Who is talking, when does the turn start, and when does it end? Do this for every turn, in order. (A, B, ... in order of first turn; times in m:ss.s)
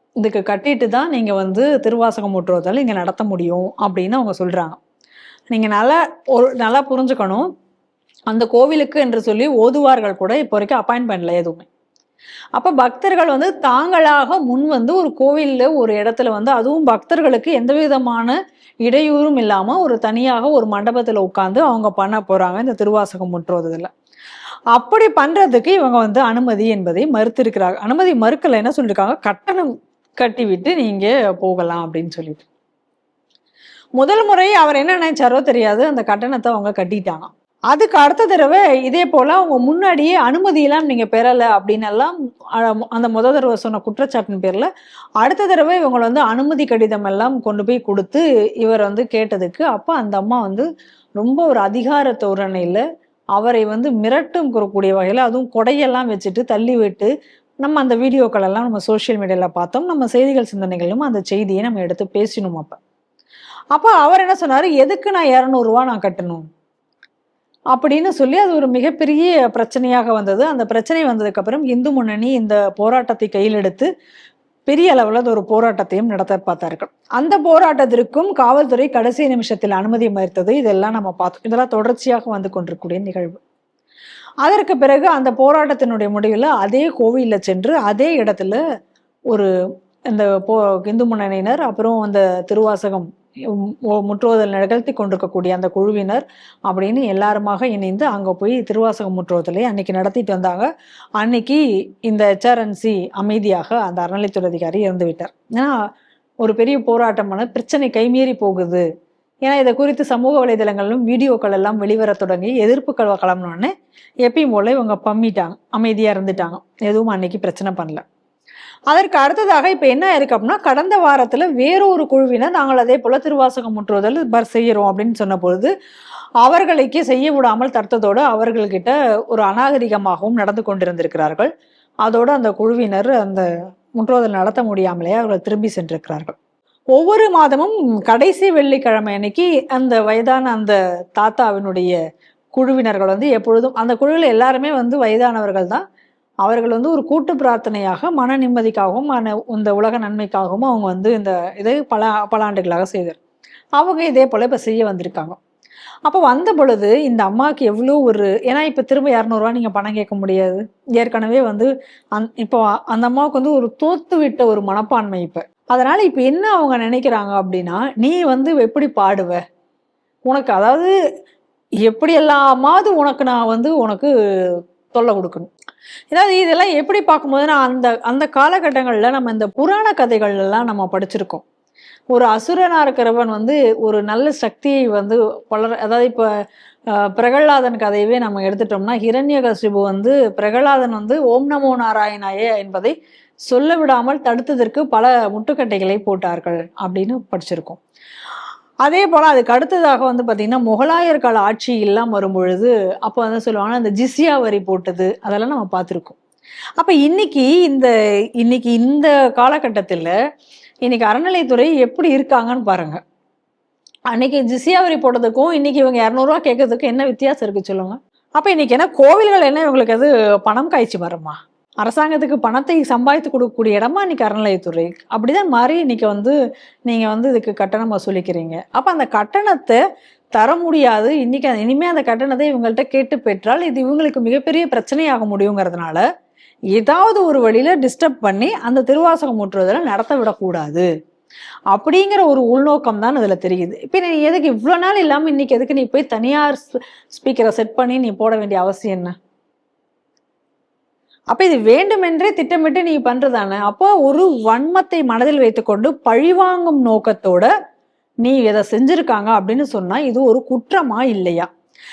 0:00.2-0:04.8 A
0:05.5-0:07.4 A
0:08.3-0:11.6 A
0:12.5-0:23.9 A
0:24.7-0:32.4 A
0:34.0-0:44.7 A
0:45.2-0:52.8 A
0:53.3-0:57.1 A
0:57.6-1:02.8 A
1:03.7-1:06.4 A
1:07.7-1:13.9 A
1:14.7-1:23.4 A
1:24.4-1:28.6 A
1:30.1-1:45.8 A
1:46.4-1:48.8 A
1:49.5-1:53.7 A
1:54.2-1:58.0 A
1:58.9-2:05.7 A
2:06.4-2:11.5 A
2:12.0-2:13.4 A
2:14.0-2:16.3 A
2:16.9-2:22.0 A
2:22.5-2:25.8 A
2:26.4-2:33.2 A
2:33.8-2:35.4 A
2:36.0-2:49.4 A
2:50.3-2:50.9 A
2:51.8-2:55.5 A
2:56.1-3:01.4 A
3:02.1-3:06.3 A
3:06.9-3:12.9 A
3:13.5-3:17.8 A
3:18.8-3:26.2 A
3:26.8-3:30.1 A
3:30.8-3:33.0 A
3:34.1-3:46.3 A
3:46.9-3:49.8 A
3:50.4-3:56.0 A
3:56.7-4:00.9 A
4:01.7-4:09.1 A
4:11.3-4:17.5 A
4:18.2-4:21.5 A